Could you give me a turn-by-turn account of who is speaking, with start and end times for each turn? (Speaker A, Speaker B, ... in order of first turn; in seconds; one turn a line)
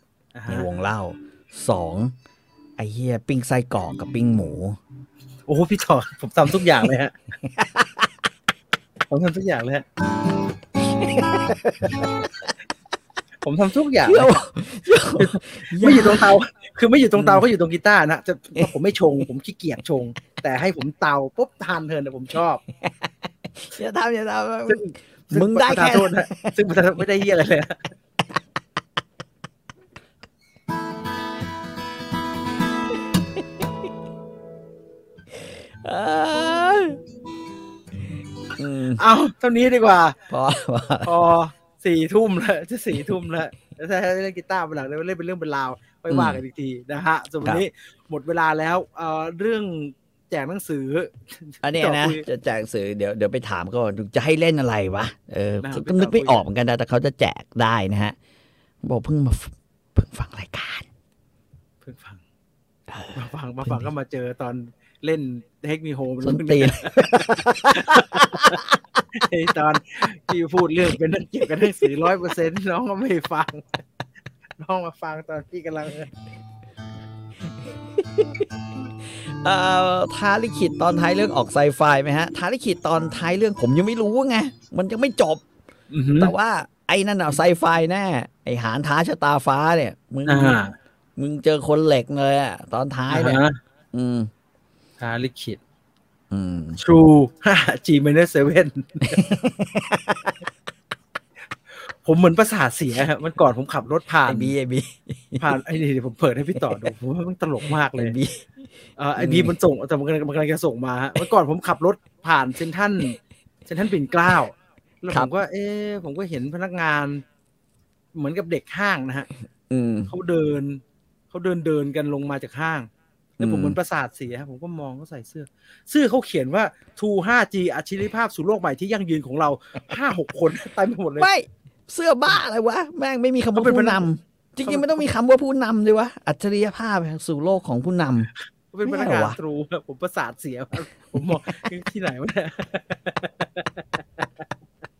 Speaker A: 0.3-0.7
Speaker B: 0.5-2.1
Speaker B: 2.8-4.8
Speaker A: 5.5-7.1
Speaker B: 7.4-8.1
Speaker A: 9.1-9.8
Speaker B: 10.9-12.2
Speaker A: 13.4-22.6
Speaker B: 14.0-16.3
Speaker B: 17.1-17.4
Speaker B: 22.7-26.5
Speaker A: 24.7-27.8
Speaker B: 35.4-37.0
Speaker B: 38.6-39.0
Speaker A: 39.0-40.2
Speaker B: 40.3-41.1
Speaker A: 41.0-52.2
Speaker B: 46.1-46.4
Speaker B: 51.6-58.1
Speaker A: 55.6-56.4
Speaker B: 58.8-60.9
Speaker A: 61.8-62.2
Speaker B: 62.9-63.9
Speaker A: 63.1-73.8
Speaker B: 66.2-68.8
Speaker A: 74.6-76.1
Speaker B: 77.9-78.5
Speaker B: 79.0-85.4
Speaker A: 85.9-86.3
Speaker B: 86.2-90.6
Speaker A: 90.3-90.7
Speaker B: 91.2-93.4
Speaker A: 93.1-93.6
Speaker B: 93.9-94.3
Speaker A: 95.0-95.6
Speaker B: 96.3-96.8
Speaker A: 96.7-99.2
Speaker B: 99.1-100.3
Speaker A: 101.7-104.5
Speaker B: 104.3-105.6
Speaker A: 105.4-108.2
Speaker B: 106.6-106.9
Speaker B: 107.9-108.6
Speaker A: 109.0-117.2
Speaker B: 109.2-109.5
Speaker A: 118.1-119.3
Speaker B: 119.7-120.1
Speaker A: 120.1-131.3
Speaker B: 123.4-123.8
Speaker B: 131.2-138.3
Speaker A: 133.5-134.1
Speaker A: 134.6-135.1
Speaker A: 138.7-144.4
Speaker B: 138.8-139.4